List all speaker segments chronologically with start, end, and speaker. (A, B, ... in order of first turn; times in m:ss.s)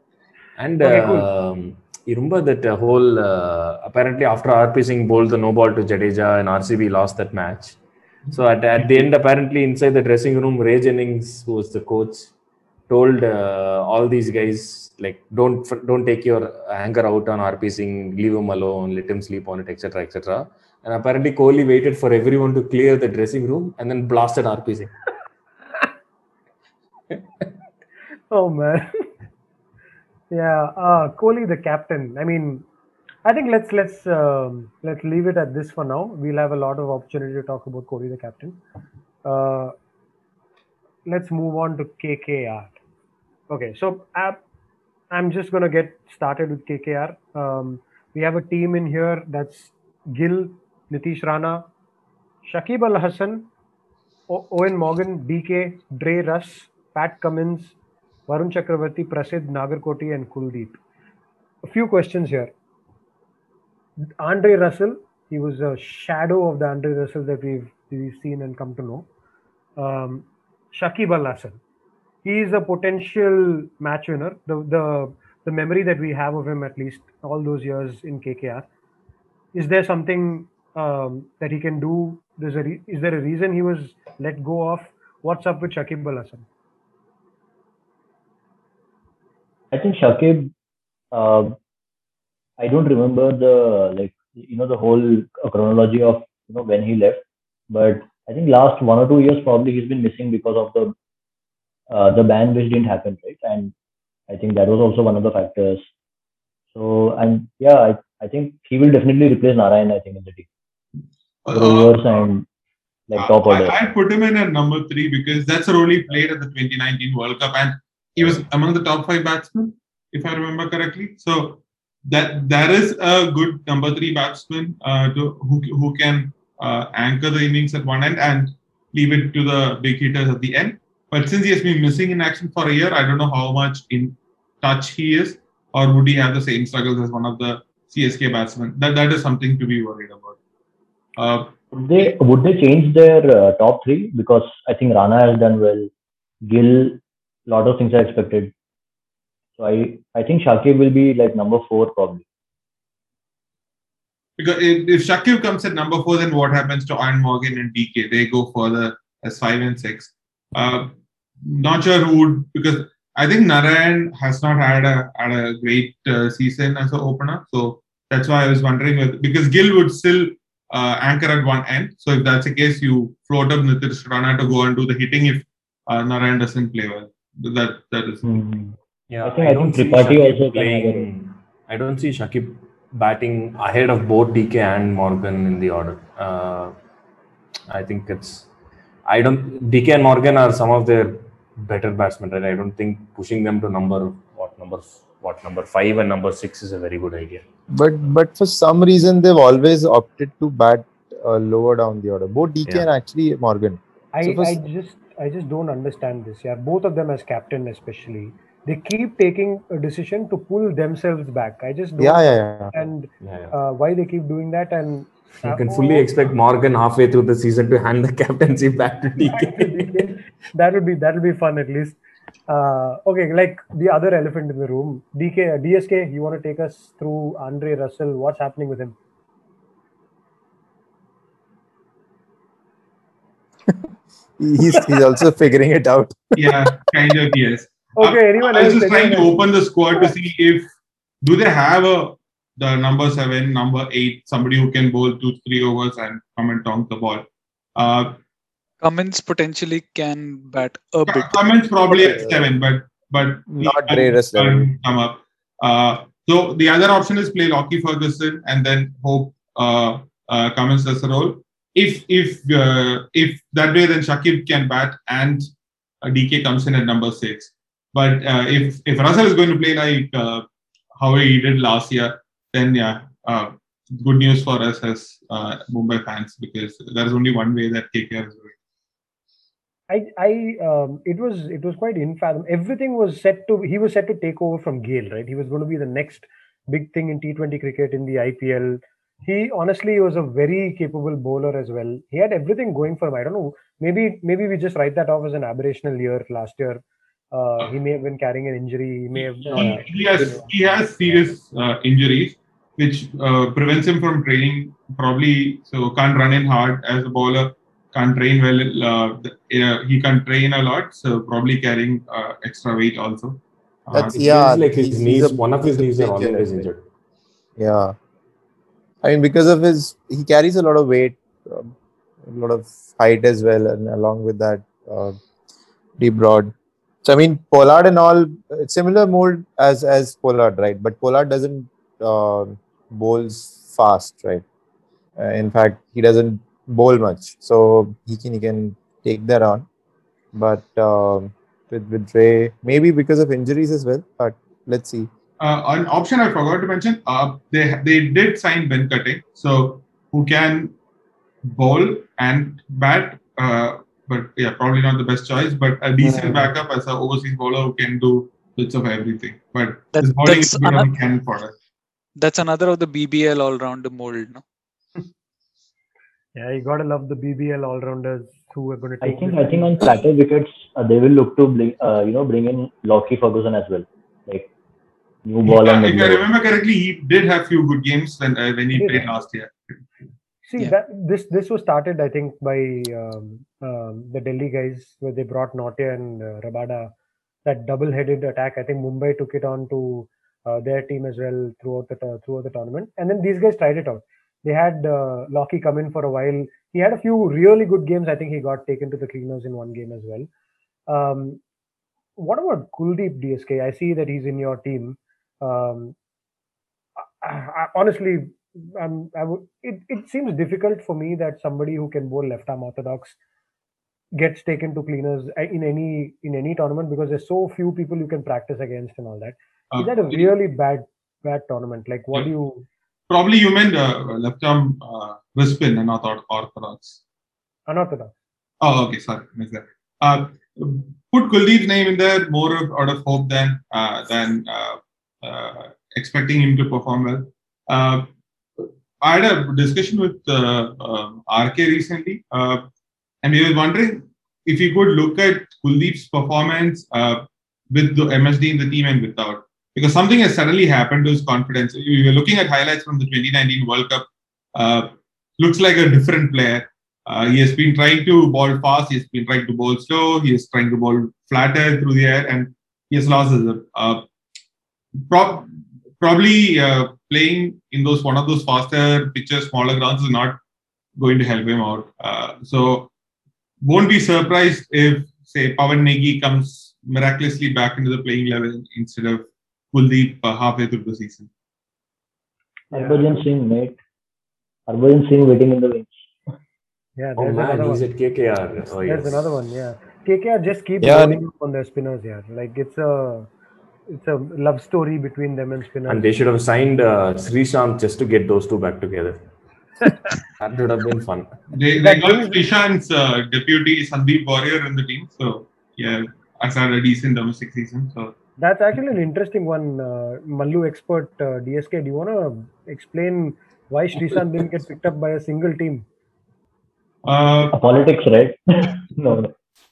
0:00.6-0:07.8 A
0:00.8-0:01.3 B
0:08.3-0:12.3 A
0:12.9-0:24.9 A
0:28.3-0:29.1 B
0:30.3-0:32.6 B
0:33.2-0:38.6 B
0:39.2-0:39.7 B
0:41.0-0:42.8 B
0:43.5-0:44.4 B
0:45.1-0:51.7 B
0:52.4-0:53.5 B
0:54.3-0:57.7 B
0:58.3-1:00.8 B
1:01.6-1:02.5 B
1:04.2-1:09.0 B
1:09.8-1:11.6 B
1:12.2-1:18.6 B
1:19.5-1:26.4 B
1:29.7-1:30.5 C
1:31.1-1:31.6 C
1:32.6-1:40.9 C
1:41.9-1:43.7 C
1:44.3-1:45.9 C
1:46.7-1:50.5 C
1:51.4-1:52.3 D
1:51.5-1:52.4 C
1:53.1-1:53.8 C
1:53.1-2:20.4 D
2:21.2-2:22.2 D
2:21.7-2:25.9 C
2:26.4-2:28.5 C
2:29.6-2:32.2 C
2:34.4-2:40.9 D
2:41.4-2:58.4 D
2:58.2-3:01.1 C
2:59.1-3:06.7 A
3:07.7-3:08.5 A
3:09.1-3:17.4 A
3:17.7-3:24.6 E
3:24.1-3:36.1 B
3:32.0-3:32.7 E
3:33.2-3:33.5 A
3:35.4-3:40.2 A
3:39.2-3:42.0 B
3:42.5-3:49.0 B
3:54.4-3:56.7 E
3:56.4-4:00.7 D
3:58.0-3:59.4 B
4:01.2-4:08.2 D
4:08.8-4:11.4 F
4:11.1-4:25.4 D
4:11.9-4:12.5 E
4:13.5-4:14.7 E
4:26.0-4:30.4 D
4:31.0-4:38.5 D
4:39.9-5:00.5 B
4:59.2-5:14.2 D
5:13.9-5:16.7 E
5:13.9-5:16.8 A
5:17.6-5:17.9 E
5:19.0-5:21.7 E
5:22.2-5:25.2 E
5:26.0-5:26.5 E
5:27.0-5:34.4 E
5:35.2-5:39.7 E
5:40.3-5:45.1 E
5:45.4-5:50.7 D
5:51.4-6:01.5 D
5:59.9-6:00.9 F
6:02.2-6:04.4 F
6:06.4-6:10.0 B
6:09.0-6:14.5 C
6:15.2-6:16.3 C
6:15.4-6:19.8 D
6:18.7-6:19.1 B
6:20.4-6:26.9 B
6:27.4-6:40.3 B
6:40.9-6:41.4 B
6:42.2-6:45.9 B
6:47.2-6:53.2 B
6:54.2-7:02.6 B
6:59.7-7:00.3 D
7:03.1-7:07.0 D
7:07.7-7:08.1 B
7:08.6-7:18.1 D
7:18.6-7:22.6 D
7:23.2-7:44.0 D
7:45.0-7:50.4 D
7:51.0-7:52.9 D
7:53.6-8:01.3 D
8:02.7-8:03.8 C
8:02.7-8:03.2 B
8:04.7-8:06.0 C
8:07.0-8:07.8 B
8:07.2-8:09.3 A
8:08.8-8:13.3 B
8:10.8-8:11.2 E
8:13.9-8:16.1 B
8:15.8-8:19.2 A
8:20.4-8:21.3 A
8:21.5-8:28.1 D
8:21.8-8:22.4 B
8:28.4-8:35.8 B
8:37.0-8:37.6 D
8:37.5-8:39.3 C